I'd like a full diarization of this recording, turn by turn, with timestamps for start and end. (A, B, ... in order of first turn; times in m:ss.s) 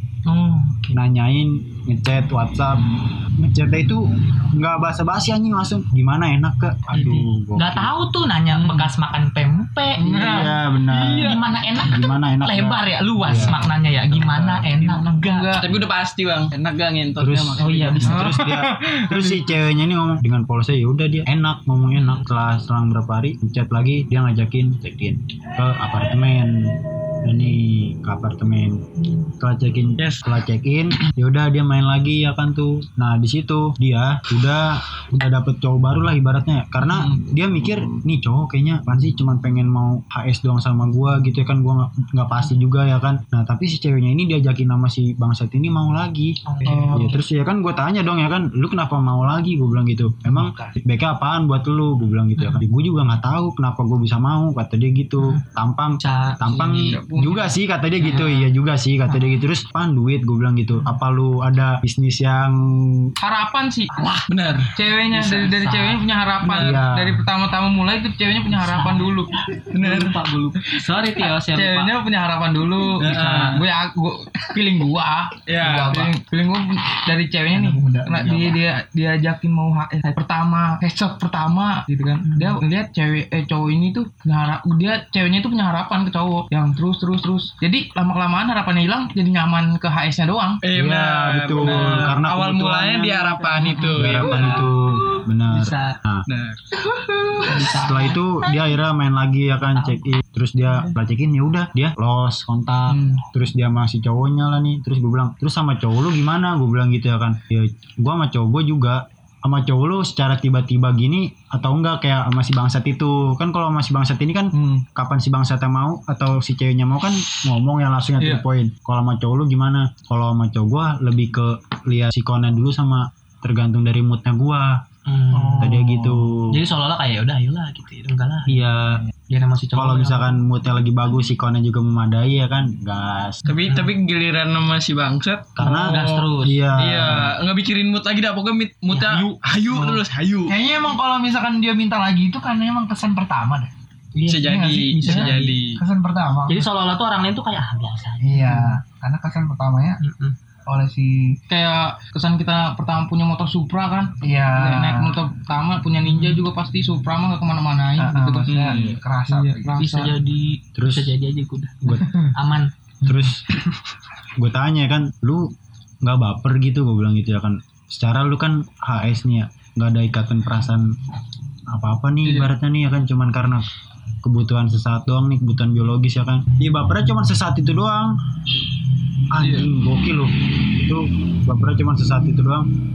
0:00.3-0:01.0 A
0:00.9-0:08.0 B
0:06.9-0:10.5 A
0:08.5-0:08.9 C
0:10.0-0:11.4 C
0:10.0-0:13.7 B
0:11.2-0:15.6 A
0:14.1-0:15.7 C
0:15.6-0:18.0 D
0:17.2-0:46.4 B
0:17.6-0:18.4 A
0:18.0-0:19.4 C
0:22.0-0:22.2 A
0:30.0-0:30.2 D
0:36.8-0:37.2 C
0:46.5-0:47.2 A
0:46.7-0:47.2 C
0:46.9-1:03.1 B
0:50.4-0:50.7 E
0:56.0-0:57.0 A
0:56.8-0:57.6 C
0:58.0-0:58.5 A
1:03.2-1:04.2 C
1:03.9-1:04.2 A
1:04.3-1:04.7 D
1:04.7-1:09.3 C
1:05.1-1:06.0 A
1:06.4-1:06.8 D
1:06.6-1:07.2 B
1:08.5-1:11.9 A
1:09.7-1:10.2 D
1:10.7-1:30.6 C
1:13.0-1:13.6 A
1:13.0-1:13.6 D
1:15.5-1:16.0 D
1:15.6-1:16.2 E
1:17.5-1:18.6 E
1:22.2-1:22.6 A
1:30.6-1:34.6 D
1:30.7-1:36.2 B
1:33.5-1:34.7 A
1:35.5-1:36.0 A
1:36.3-1:36.6 D
1:36.8-1:37.8 C
1:37.4-1:38.2 A
1:37.8-2:04.8 B
1:39.7-1:40.2 A
1:42.9-1:43.2 C
1:54.5-1:54.8 C
1:58.2-1:58.4 C
2:05.1-2:05.8 A
2:05.4-2:06.3 E
2:05.6-2:06.6 B
2:06.5-2:08.6 A
2:08.5-2:09.0 B
2:09.3-2:10.4 A
2:09.8-2:13.4 B
2:13.4-2:20.6 D
2:15.6-2:17.4 B
2:15.6-2:16.6 A
2:18.9-2:19.4 A
2:19.7-2:23.7 E
2:24.2-2:25.5 A
2:24.3-2:25.8 D
2:24.3-2:26.6 E
2:26.5-2:28.8 A
2:28.2-2:30.0 E
2:30.0-2:30.4 A
2:30.7-2:31.4 E
2:31.5-2:40.1 C
2:34.2-2:35.2 E
2:38.0-2:39.8 E
2:38.5-2:39.0 D
2:39.8-2:42.7 A
2:40.8-2:41.2 B
2:43.0-2:43.5 B
2:44.4-2:51.0 B
2:51.7-2:53.7 B
2:52.2-2:52.5 C
2:54.2-2:58.2 B
2:59.3-3:02.7 B
2:59.4-2:59.7 C